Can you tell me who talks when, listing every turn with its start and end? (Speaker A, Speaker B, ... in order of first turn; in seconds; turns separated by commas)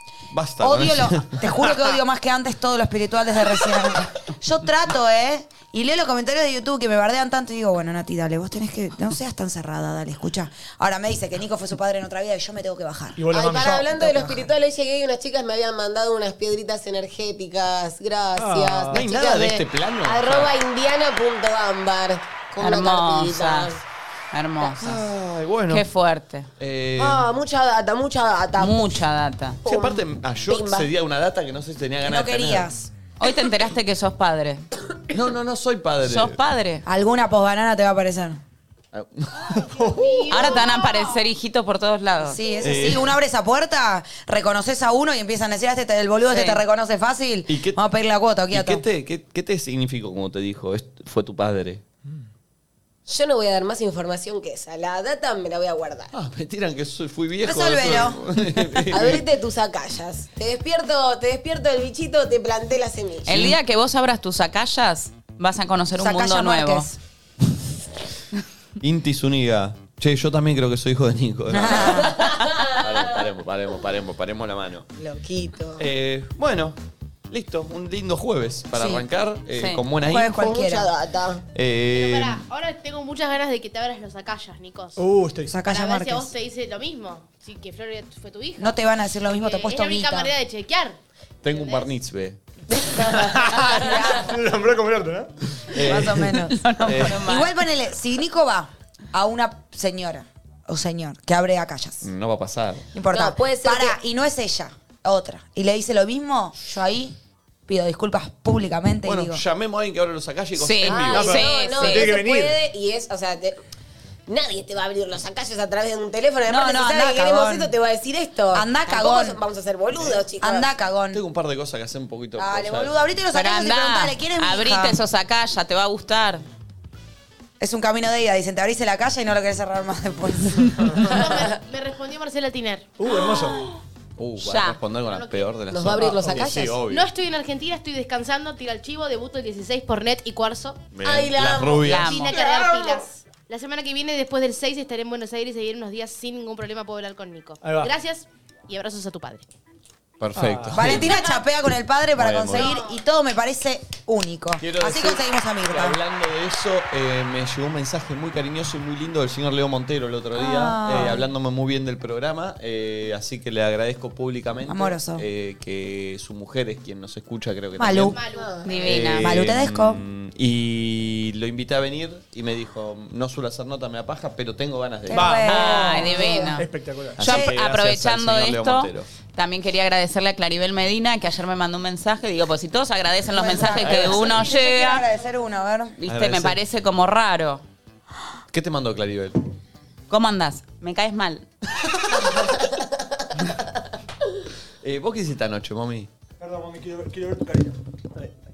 Speaker A: 0.3-1.6, Speaker B: 0.6-14.5, Speaker C: 13.2-13.9, Speaker D: 13.3-23.8, Speaker C: 18.4-19.0, Speaker A: 18.9-20.5, Speaker E: 22.6-23.7, Speaker E: 24.3-25.0, Speaker A: 24.8-25.9, Speaker E: 25.7-26.5, Speaker A: 26.6-27.3, Speaker D: 27.0-29.0, Speaker E: 28.6-29.6, Speaker D: 29.6-30.9, Speaker A: 29.6-32.7, Speaker B: 32.0-32.9, Speaker E: 33.2-34.6, Speaker A: 35.1-36.4, Speaker E: 36.0-36.8, Speaker B: 36.9-38.4, Speaker A: 38.9-39.7, Speaker C: 39.7-40.5, Speaker D: 40.0-40.7, Speaker E: 40.3-42.4, Speaker B: 42.2-48.8, Speaker A: 42.6-43.1, Speaker E: 46.3-46.6, Speaker A: 47.5-47.8, Speaker A: 48.5-51.8, Speaker D: 53.0-56.1, Speaker A: 56.1-59.2, Speaker B: 57.4-58.4, Speaker D: 58.9-63.4, Speaker E: 63.2-66.9, Speaker A: 63.3-63.5, Speaker B: 66.0-67.0, Speaker A: 68.8-74.9, Speaker B: 71.5-72.2, Speaker D: 72.1-72.8, Speaker D: 75.0-75.8, Speaker A: 75.8-76.8, Speaker A: 77.3-80.4, Speaker B: 78.7-79.0, Speaker E: 79.5-79.8, Speaker B: 80.0-80.9, Speaker D: 80.3-81.4, Speaker A: 81.5-82.4, Speaker F: 81.9-85.0, Speaker C: 85.0-85.6, Speaker B: 85.5-86.3, Speaker F: 85.6-88.8, Speaker B: 88.6-90.3, Speaker F: 89.4-91.9, Speaker A: 91.4-92.4, Speaker C: 93.0-95.3, Speaker B: 93.7-94.3, Speaker A: 95.7-97.2, Speaker B: 95.8-102.1, Speaker E: 96.5-97.5, Speaker A: 102.0-102.9, Speaker B: 102.9-107.2, Speaker D: 103.1-104.0, Speaker B: 107.7-109.4, Speaker A: 109.0-111.5, Speaker E: 110.6-112.1, Speaker D: 110.9-113.6, Speaker C: 111.8-112.5, Speaker D: 114.3-120.7, Speaker B: 116.5-117.7, Speaker B: 118.5-119.4, Speaker B: 120.4-121.2, Speaker A: 121.1-122.9, Speaker B: 122.4-125.0, Speaker E: 123.3-126.4, Speaker B: 127.6-131.2, Speaker F: 131.0-132.9, Speaker C: 133.0-133.6, Speaker A: 134.2-137.1, Speaker E: 134.4-134.8, Speaker F: 135.1-135.5, Speaker D: 135.7-136.8, Speaker F: 136.8-140.9, Speaker A: 140.9-142.3, Speaker D: 141.0-142.9, Speaker E: 141.9-142.3, Speaker F: 142.0-149.4, Speaker C: 147.6-147.9, Speaker A: 150.2-151.2, Speaker C: 150.4-150.9, Speaker B: 150.7-156.0, Speaker A: 152.2-152.7, Speaker F: 152.5-153.0, Speaker A: 154.6-168.2, Speaker B: 160.3-161.3, Speaker B: 164.7-165.2, Speaker B: 167.8-168.2, Speaker F: 168.1-169.1, Speaker D: 168.3-168.7, Speaker E: 168.6-169.4, Speaker A: 168.8-175.4, Speaker B: 169.2-170.0, Speaker B: 175.1-176.3, Speaker C: 175.1-177.2, Speaker E: 175.4-176.7, Speaker D: 176.0-176.6, Speaker A: 177.2-179.1, Speaker E: 177.2-185.1, Speaker B: 177.2-177.5, Speaker B: 183.3-186.0, Speaker A: 183.8-184.3, Speaker E: 186.0-187.6, Speaker A: 186.1-186.6, Speaker A: 188.5-189.4, Speaker E: 190.1-191.4, Speaker A: 194.8-196.1, Speaker C: 196.4-198.3